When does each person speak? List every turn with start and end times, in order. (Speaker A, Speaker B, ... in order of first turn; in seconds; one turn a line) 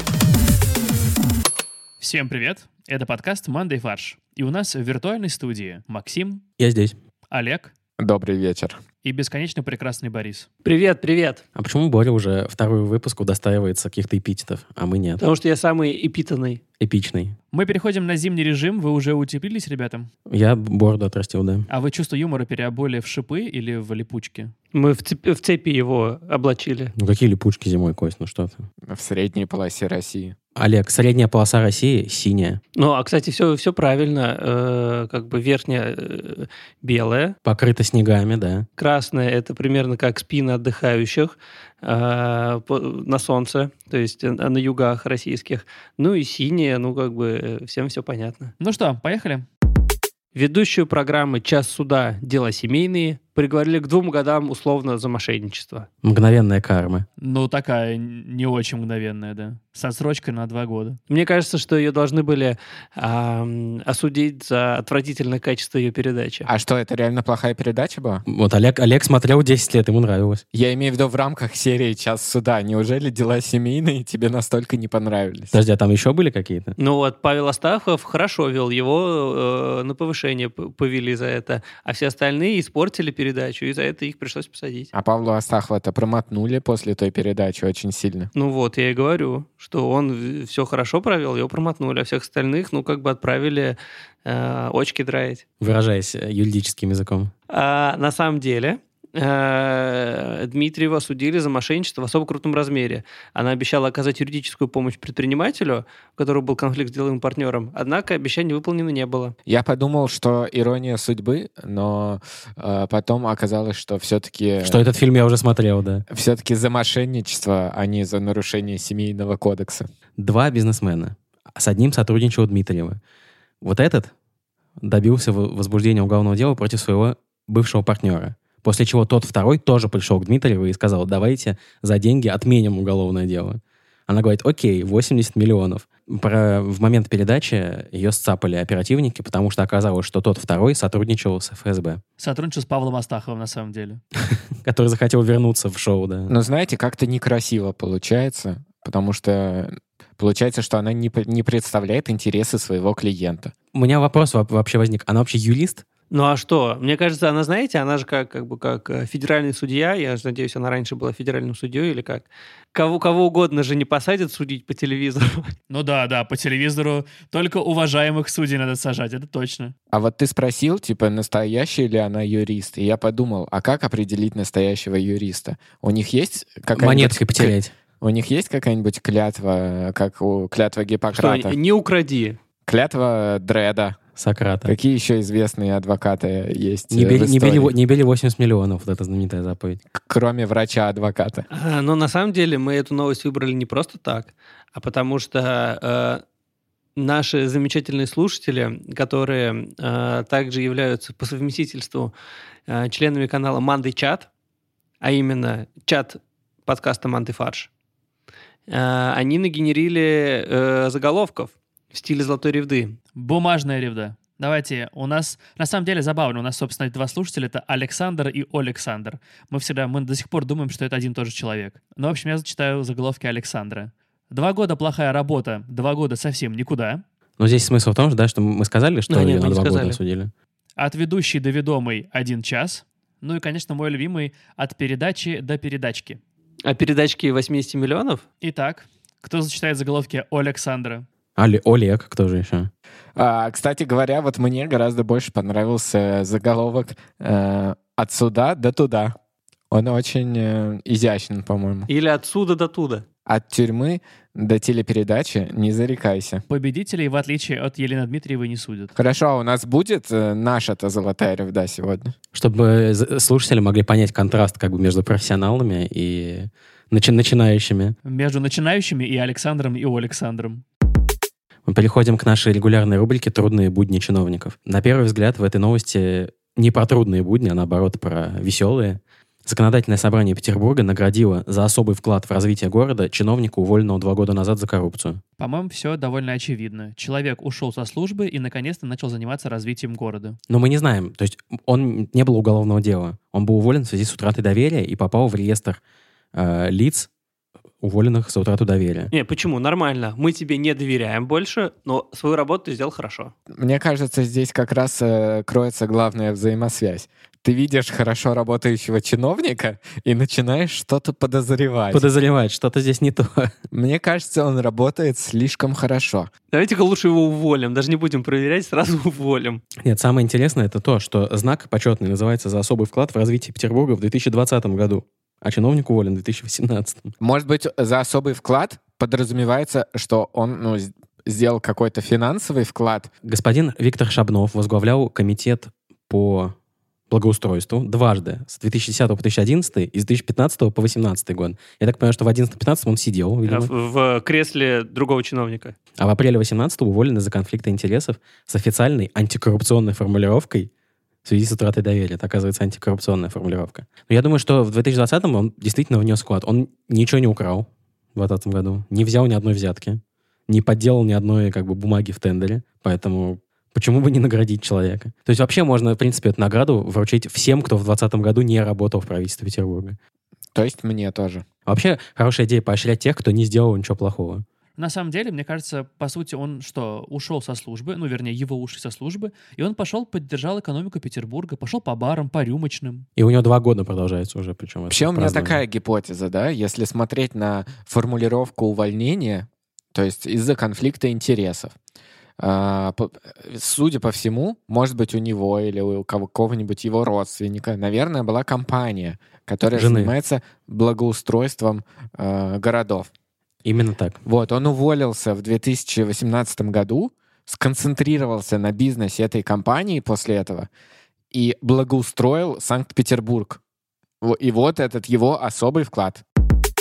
Speaker A: 2.0-6.4
Speaker B: 6.6-7.0
Speaker A: 7.3-7.7
Speaker C: 8.0-8.8
Speaker A: 9.0-10.5
Speaker D: 10.6-11.4
Speaker B: 11.5-15.2
Speaker D: 15.2-16.6
Speaker B: 16.8-17.3
Speaker A: 17.5-20.1
Speaker B: 20.3-21.7
Speaker A: 21.7-24.5
Speaker D: 24.7-26.9
Speaker B: 27.0-28.6
Speaker C: 28.9-30.3
Speaker B: 30.6-32.6
Speaker D: 32.8-37.3
Speaker B: 37.5-38.7
Speaker D: 38.8-48.5
Speaker A: 48.6-49.5
Speaker D: 50.3-55.9
Speaker B: 56.0-57.0
Speaker A: 57.2-61.0
Speaker D: 61.1-66.5
Speaker C: 66.5-68.2
Speaker B: 68.2-70.4
Speaker C: 70.5-75.5
Speaker B: 75.5-76.8
Speaker D: 76.8-84.9
Speaker C: 84.9-88.3
Speaker D: 88.3-95.4
Speaker B: 95.6-97.3
Speaker D: 97.5-109.3
Speaker C: 109.5-114.8
Speaker B: 114.6-116.0
Speaker C: 116.1-119.9
Speaker B: 120.2-123.0
Speaker B: 123.6-124.1
Speaker B: 124.8-142.0
Speaker A: 142.2-144.0
Speaker B: 144.6-146.3
Speaker C: 146.3-153.5
Speaker B: 153.7-155.8
Speaker D: 156.1-165.5
Speaker A: 165.7-169.7
Speaker C: 169.9-181.6
Speaker B: 176.7-177.7
Speaker D: 181.1-182.4
Speaker C: 182.7-184.0
Speaker B: 184.2-184.7
Speaker C: 184.7-187.7
Speaker B: 186.9-189.8
Speaker C: 189.9-191.5
Speaker D: 191.5-196.2
Speaker D: 197.0-202.1
Speaker D: 202.7-204.3
Speaker D: 205.0-207.7
Speaker D: 208.7-213.0
Speaker A: 213.2-227.0
Speaker B: 227.4-230.3
Speaker D: 229.1-230.0
Speaker A: 230.8-236.2
Speaker D: 236.7-238.2
Speaker A: 238.4-241.1
Speaker B: 241.4-242.7
Speaker C: 243.2-249.1
Speaker C: 249.7-251.9
Speaker D: 251.9-253.0
Speaker C: 253.3-256.4
Speaker A: 256.5-258.9
Speaker C: 258.9-262.1
Speaker B: 262.3-267.9
Speaker A: 268.1-270.6
Speaker B: 271.7-285.2
Speaker A: 285.4-290.4
Speaker B: 290.5-295.8
Speaker B: 296.3-297.1
Speaker B: 297.8-299.1
Speaker D: 299.1-303.3
Speaker C: 303.6-312.1
Speaker B: 311.9-313.5
Speaker C: 313.7-316.3
Speaker D: 316.5-319.6
Speaker B: 319.8-327.1
Speaker C: 327.2-333.1
Speaker B: 333.2-336.5
Speaker B: 337.1-343.7
Speaker D: 343.4-345.8
Speaker B: 346.0-350.7
Speaker B: 351.2-370.0
Speaker C: 370.5-371.4
Speaker B: 371.7-374.4
Speaker A: 374.8-383.1
Speaker B: 383.2-385.6
Speaker C: 384.9-391.7
Speaker C: 392.4-403.1
Speaker B: 399.7-400.1
Speaker B: 403.6-404.2
Speaker C: 404.2-410.7
Speaker C: 411.3-413.6
Speaker C: 414.2-416.2